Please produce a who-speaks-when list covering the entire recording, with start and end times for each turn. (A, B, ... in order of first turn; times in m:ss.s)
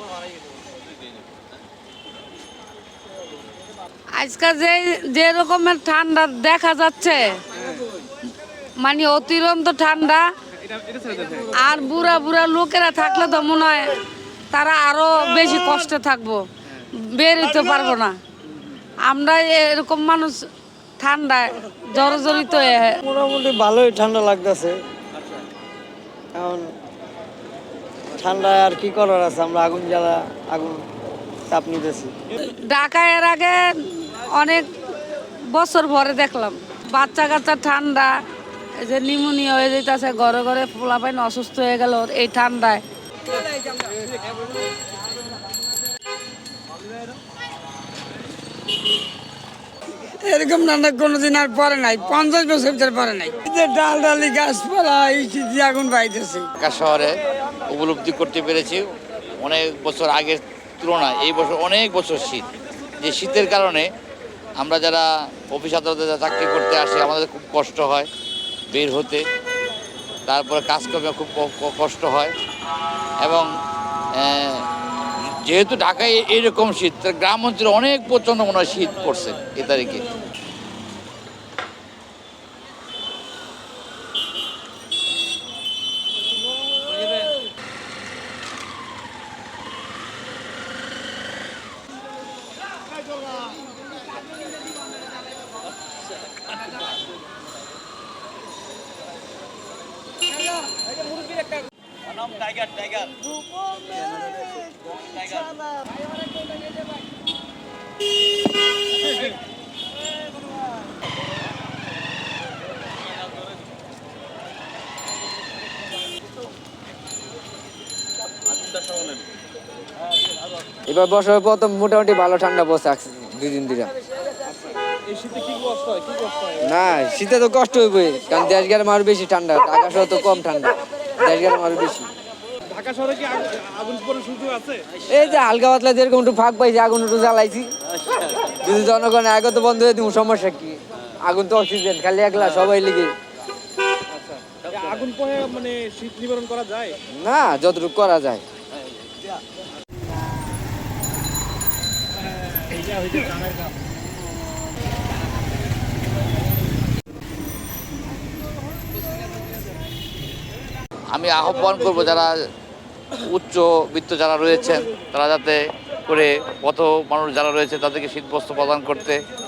0:04.1-0:07.4 A
0:07.5-0:07.8 B
0:08.8-0:10.3 A
0:10.6-0:11.5 B
0:11.6-0:14.0 A
0:14.5-0:16.4 A
0:17.0-0:18.2 A
0:19.0-0:20.5 A
0:21.0-0:23.0 A
0:23.0-0:24.8 C
0:26.3-0:26.7 C
0:28.2-0:30.8 C
0:31.5-0:32.1 C
0:32.4-0:34.7 A
0:35.5-0:38.2 A
0:38.8-0:42.8 A
0:50.1-0:56.5 D
0:56.6-0:57.2 E
0:57.7-0:58.8 E
0:59.4-1:02.5 E
1:03.0-1:03.8 E
1:04.6-1:08.1 E
1:08.7-1:09.2 E
1:10.3-1:12.3 E
1:13.2-1:13.5 E
1:14.2-1:14.6 E
1:15.5-1:20.0 E
2:00.9-2:03.9 F
2:05.0-2:06.6 B
2:06.6-2:12.1 F
2:12.7-2:14.8 B
2:15.1-2:17.7 F
2:18.5-2:23.1 F
2:24.1-2:27.0 B
2:27.1-2:28.4 F
2:41.1-2:42.3 E
2:43.3-2:49.2 E